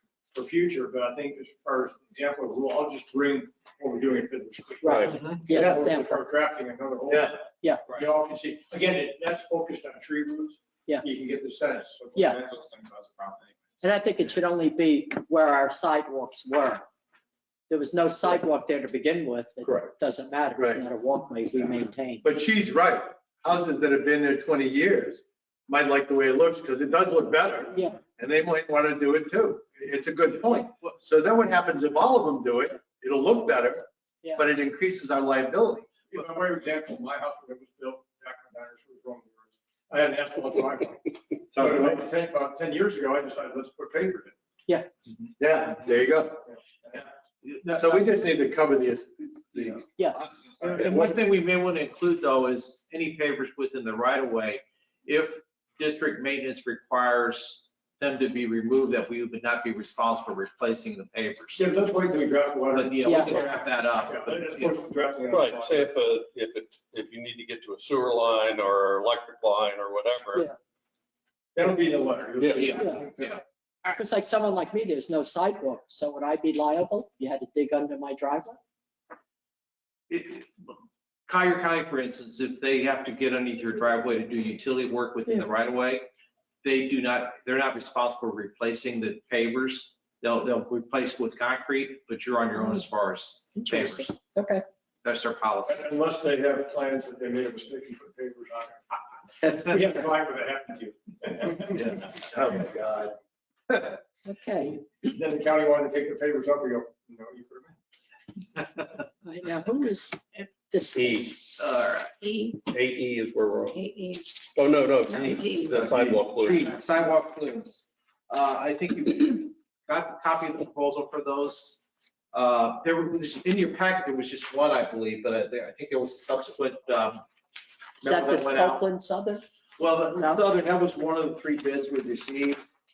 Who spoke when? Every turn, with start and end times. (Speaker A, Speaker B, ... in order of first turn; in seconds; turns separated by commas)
Speaker A: 0.3-12.5, Speaker B: 4.8-6.2, Speaker B: 12.1-12.4, Speaker C: 12.3-13.3, Speaker B: 13.8-16.9, Speaker B: 17.7-22.2, Speaker C: 20.6-20.8, Speaker C: 22.2-36.2, Speaker B: 27.7-28.0, Speaker A: 36.1-44.4, Speaker C: 41.5-42.0, Speaker C: 45.4-46.4, Speaker A: 46.5-47.0, Speaker C: 47.5-50.9, Speaker D: 47.6-48.0, Speaker A: 50.6-51.2, Speaker D: 50.7-61.7, Speaker A: 61.5-65.9, Speaker D: 62.7-64.8, Speaker B: 63.0-63.5, Speaker E: 65.3-70.5, Speaker A: 71.5-73.4, Speaker E: 72.4-72.7, Speaker D: 72.5-73.4, Speaker B: 72.7-73.0, Speaker B: 73.9-78.6, Speaker D: 80.1-80.7, Speaker D: 81.3-86.1, Speaker D: 86.6-94.2, Speaker B: 93.6-94.6, Speaker D: 95.0-95.8, Speaker A: 95.7-102.7, Speaker D: 102.1-103.1, Speaker B: 104.2-104.8, Speaker A: 104.9-107.8, Speaker B: 109.2-111.4, Speaker E: 111.0-111.5, Speaker D: 111.6-112.1, Speaker F: 112.2-112.6, Speaker E: 112.6-116.7, Speaker F: 113.6-114.4, Speaker F: 115.1-115.9, Speaker D: 115.8-127.2, Speaker D: 128.0-128.8, Speaker B: 128.0-129.4, Speaker D: 129.8-132.6, Speaker B: 130.1-130.4